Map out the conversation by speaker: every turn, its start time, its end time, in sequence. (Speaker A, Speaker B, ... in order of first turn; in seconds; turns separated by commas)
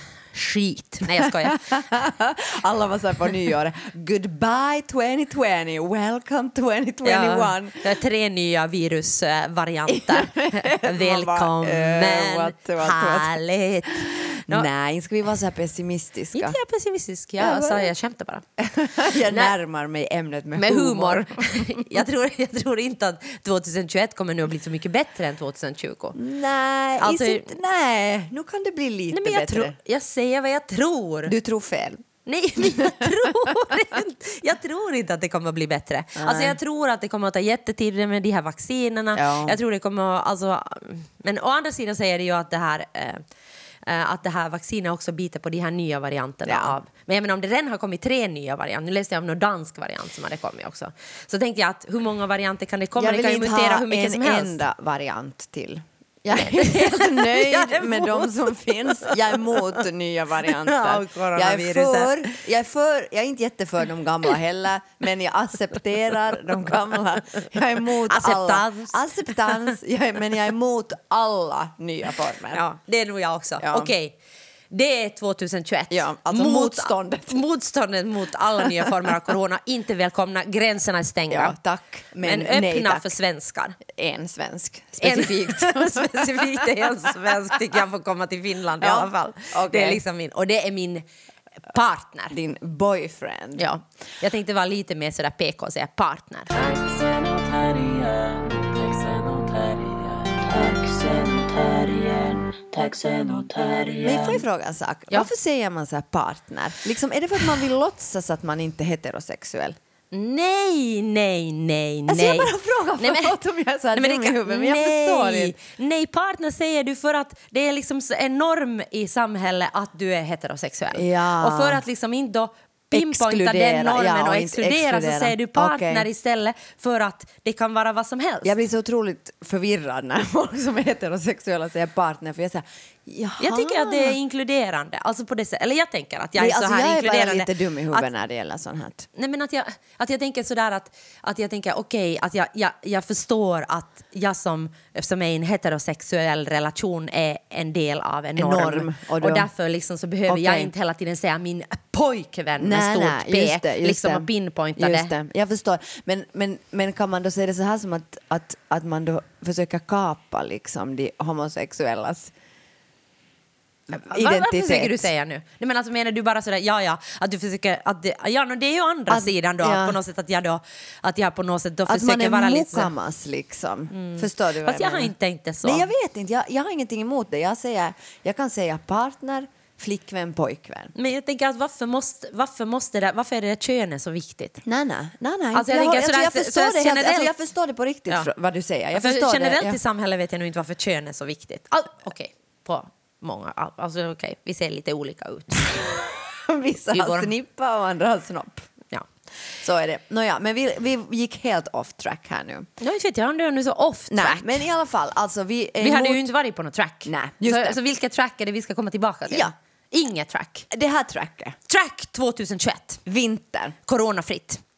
Speaker A: 0.3-1.6, Speaker B: 1.1-8.0, Speaker A: 7.0-14.7, Speaker B: 9.9-13.3, Speaker B: 13.9-16.6, Speaker A: 16.3-18.4, Speaker B: 17.4-17.9, Speaker B: 18.6-21.9, Speaker A: 19.1-19.5, Speaker A: 20.6-26.2, Speaker B: 26.1-29.8, Speaker A: 27.0-27.5, Speaker A: 29.1-31.3, Speaker B: 31.3-32.0, Speaker A: 32.3-43.2, Speaker B: 32.6-33.5, Speaker B: 36.2-36.6, Speaker B: 39.1-39.6, Speaker A: 43.9-54.6, Speaker B: 46.5-46.8, Speaker B: 53.0-72.6, Speaker A: 56.3-59.8, Speaker A: 60.5-62.4, Speaker A: 68.0-69.7, Speaker A: 72.5-74.2, Speaker B: 73.6-73.9, Speaker A: 74.7-81.6, Speaker B: 75.9-77.4, Speaker B: 81.3-83.1, Speaker A: 82.2-83.8, Speaker B: 83.9-87.3, Speaker A: 85.0-91.0, Speaker B: 88.8-90.0, Speaker A: 91.7-92.3, Speaker B: 92.3-93.6, Speaker A: 93.6-96.5, Speaker C: 96.5-104.4, Speaker B: 104.0-109.8, Speaker A: 110.1-113.4, Speaker B: 112.1-115.6, Speaker A: 113.9-128.6, Speaker B: 120.9-121.8, Speaker B: 122.9-126.1, Speaker B: 128.4-134.2, Speaker A: 133.4-138.1, Speaker B: 136.4-139.1, Speaker A: 139.2-155.1, Speaker B: 148.4-149.5, Speaker B: 150.3-150.7, Speaker B: 152.6-162.3, Speaker B: 163.9-165.1, Speaker A: 163.9-172.9, Speaker B: 169.1-170.0, Speaker B: 171.9-180.9, Speaker A: 173.9-175.9, Speaker A: 180.9-184.6, Speaker B: 184.6-189.8, Speaker A: 185.5-187.3, Speaker A: 188.9-195.9, Speaker B: 196.2-198.7, Speaker A: 196.9-197.3, Speaker B: 199.6-202.7, Speaker A: 202.8-204.7, Speaker B: 204.1-206.3, Speaker A: 205.8-210.7, Speaker B: 207.1-207.8, Speaker B: 209.3-209.5, Speaker B: 210.7-211.6, Speaker A: 211.7-213.0, Speaker B: 213.1-213.8, Speaker A: 213.9-214.6